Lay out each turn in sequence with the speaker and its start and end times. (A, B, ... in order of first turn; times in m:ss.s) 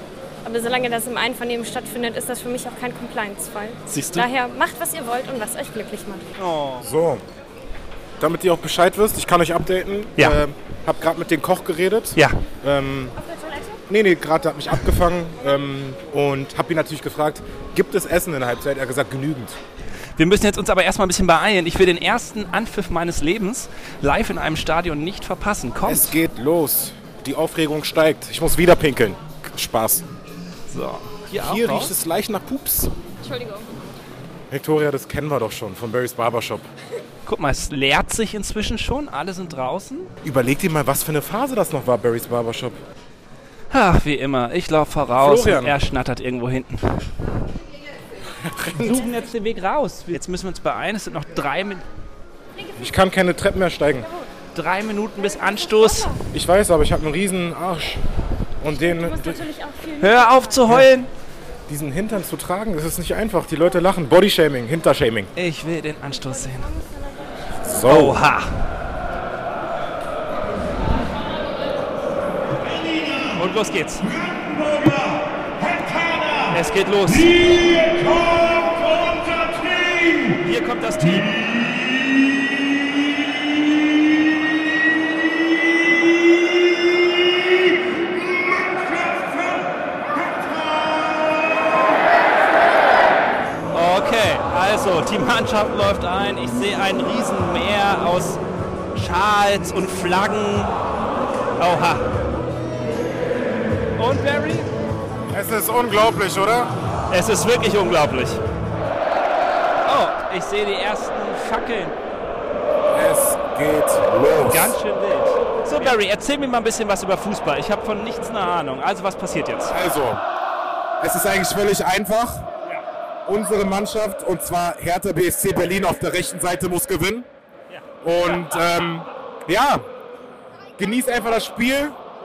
0:00.4-0:06.2 A
0:03.9-0:04.3 B
0:06.4-0:06.8 B
0:06.8-0:07.2 C
0:08.2-0:13.1 C
0:13.2-0:13.8 A
0:13.9-0:19.6 C
0:20.2-0:26.2 B
0:25.8-0:30.0 C
0:30.7-0:32.0 B
0:31.3-0:32.9 C
0:33.2-0:33.7 A
0:34.5-0:36.7 C
0:37.2-0:40.1 B
0:40.2-0:42.8 C
0:43.7-0:46.9 B
0:45.2-0:45.8 C
0:48.4-0:49.1 C
0:48.7-0:51.8 B
0:52.8-0:54.1 C
0:54.5-0:56.1 B
0:55.6-0:56.2 A
0:56.3-0:58.0 C
0:58.6-0:59.4 C
0:58.7-1:00.7 A
1:00.0-1:01.1 B
1:01.7-1:05.3 C
1:05.4-1:06.7 B
1:06.1-1:07.2 A
1:07.6-1:08.2 C
1:07.9-1:08.5 B
1:13.3-1:14.1 B
1:16.5-1:17.9 B
1:18.9-1:19.9 C
1:20.2-1:21.3 B
1:33.7-1:38.4 B
1:38.9-1:40.7 B
1:41.6-1:42.1 B
1:44.0-1:44.7 B
1:45.3-1:46.7 C
1:47.1-1:48.4 B
1:49.8-1:52.0 B
1:52.9-1:54.8 C
1:54.4-1:59.7 B
1:59.7-2:00.2 C
2:01.0-2:02.4 C
2:03.2-2:07.3 C
2:07.7-2:09.0 B
2:08.0-2:09.8 C
2:10.8-2:12.0 C